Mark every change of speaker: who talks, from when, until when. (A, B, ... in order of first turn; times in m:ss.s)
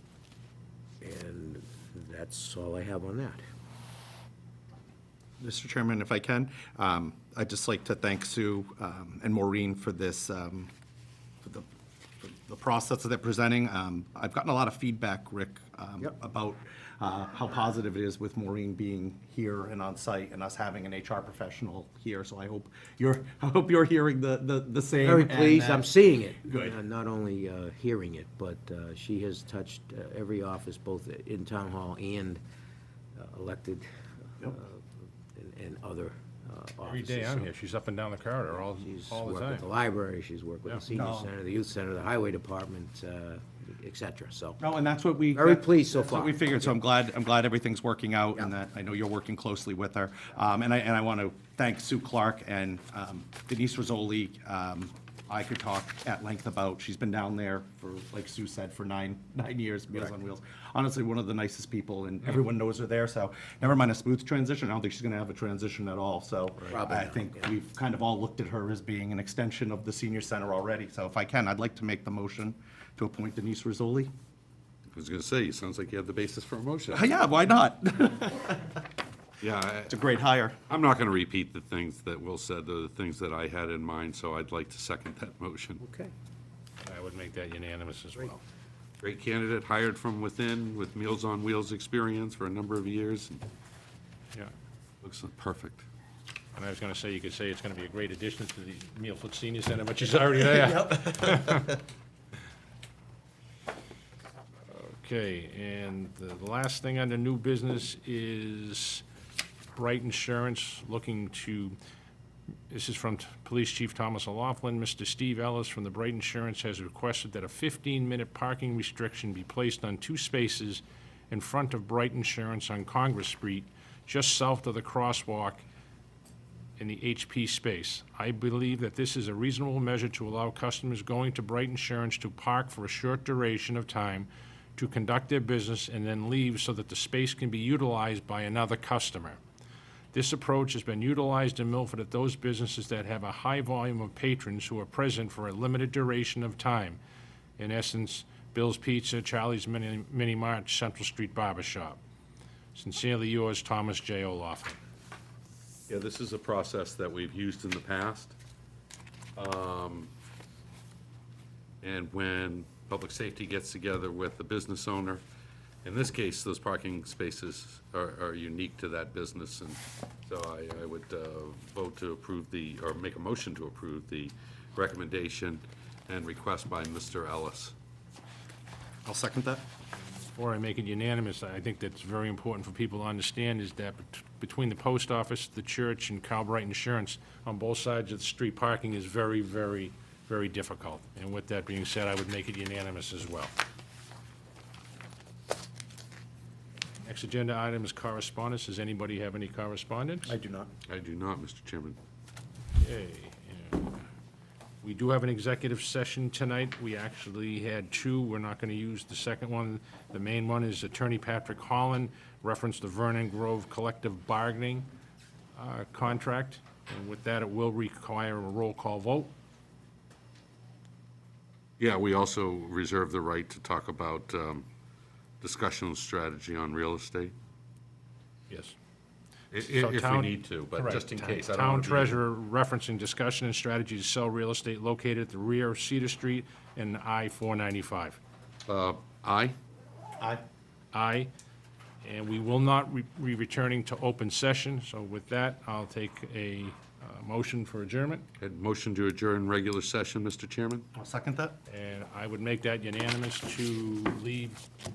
0:01.0-0:03.4 A
0:05.4-0:10.7 B
0:12.2-0:26.8 B
0:25.0-0:32.4 A
0:33.1-0:33.8 A
0:34.5-0:34.8 A
0:35.3-0:37.5 A
0:36.8-0:39.7 C
0:38.6-0:44.6 A
0:40.9-0:41.3 B
0:44.6-1:14.1 B
0:45.3-0:46.7 A
1:06.6-1:07.4 A
1:14.9-1:17.1 D
1:16.9-1:18.8 B
1:19.4-1:20.0 D
1:19.9-1:20.6 B
1:20.7-1:25.8 D
1:25.8-1:26.1 A
1:26.8-1:28.4 C
1:29.0-1:33.4 D
1:35.0-1:35.8 D
1:36.5-1:41.8 C
1:40.6-1:41.0 B
1:44.6-1:49.0 C
1:49.7-1:51.8 C
1:52.7-2:05.6 C
2:06.8-2:19.4 C
2:20.1-2:27.0 C
2:27.6-2:32.0 C
2:32.7-2:34.8 C
2:35.9-2:38.3 D
2:39.4-2:40.1 D
2:41.8-2:45.2 D
2:45.8-2:57.7 D
2:59.0-2:59.6 B
3:00.1-3:13.5 C
3:17.0-3:20.4 C
3:20.2-3:20.7 B
3:20.9-3:22.0 D
3:22.8-3:24.0 C
3:24.8-3:34.9 C
3:35.5-3:39.3 C
3:41.8-3:44.7 D
3:45.4-3:47.3 D
3:48.5-3:48.8 C
3:49.5-3:52.2 D
3:49.6-3:58.2 C
3:58.7-3:59.6 D
4:00.9-4:01.3 C
4:02.0-4:08.2 C
4:08.4-4:10.8 D
4:10.9-4:11.6 B
4:11.7-4:14.6 C